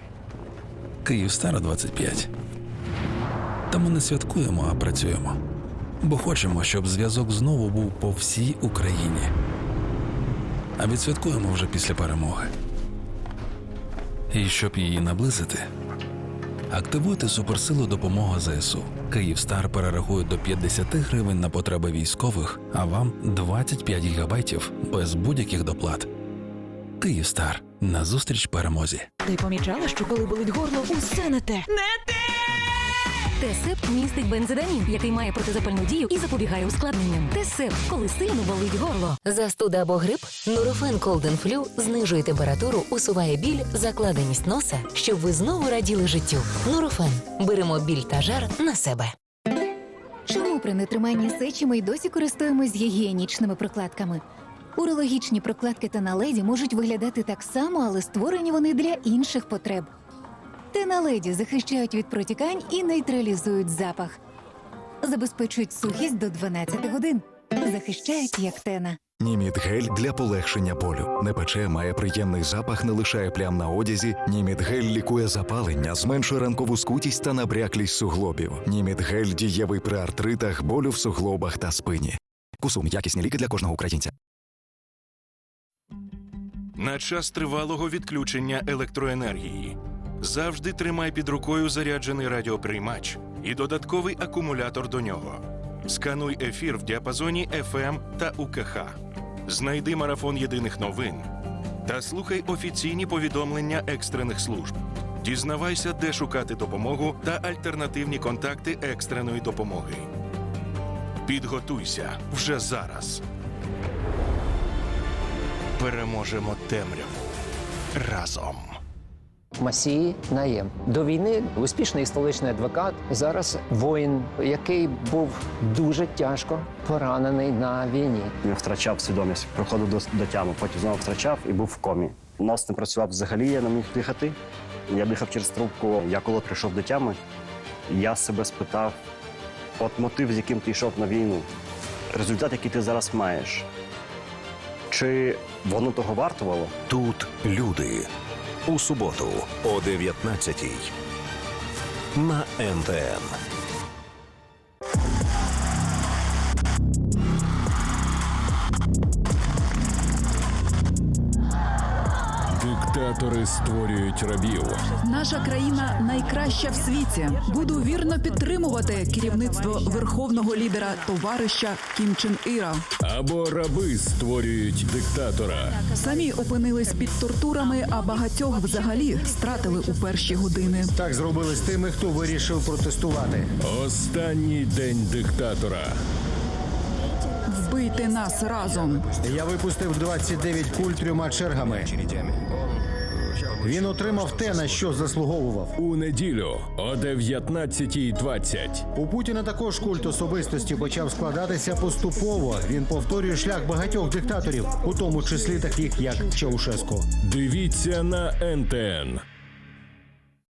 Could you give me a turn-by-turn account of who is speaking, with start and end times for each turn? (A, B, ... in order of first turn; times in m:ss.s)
0:01.0-0:02.3 A
0:03.7-0:05.4 A
0:06.0-0:09.3 A
0:10.8-0:12.5 A
0:14.3-0:15.6 A
0:16.7-0:26.1 A
0:27.0-0:29.1 A
0:31.1-0:31.4 B
0:33.4-0:39.2 B
0:39.2-0:49.1 C
0:50.3-0:54.2 D
0:54.8-0:59.9 D
1:00.7-1:04.2 D
1:05.0-1:09.0 D
1:09.2-1:24.1 E
1:26.8-1:41.3 F
1:41.8-1:50.1 F
1:51.2-1:53.2 F
1:55.8-1:57.4 F
1:58.0-1:58.8 F
1:59.6-2:08.3 G
2:08.4-2:14.4 H
2:14.9-2:17.2 H
2:17.9-2:19.0 H
2:19.8-2:21.5 H
2:22.1-2:23.6 H
2:24.9-2:26.7 H
2:26.9-2:28.1 I
2:28.7-2:30.9 I
2:32.2-2:33.3 I
2:42.5-2:44.9 J
2:45.0-2:52.8 K
2:53.0-2:55.9 J
2:55.9-3:00.9 K
3:01.0-3:03.4 L
3:03.6-3:05.9 J
3:07.5-3:09.0 K
3:09.2-3:11.9 L
3:13.7-3:15.6 L
3:15.8-3:18.8 J
3:19.0-3:27.0 L
3:27.2-3:29.2 J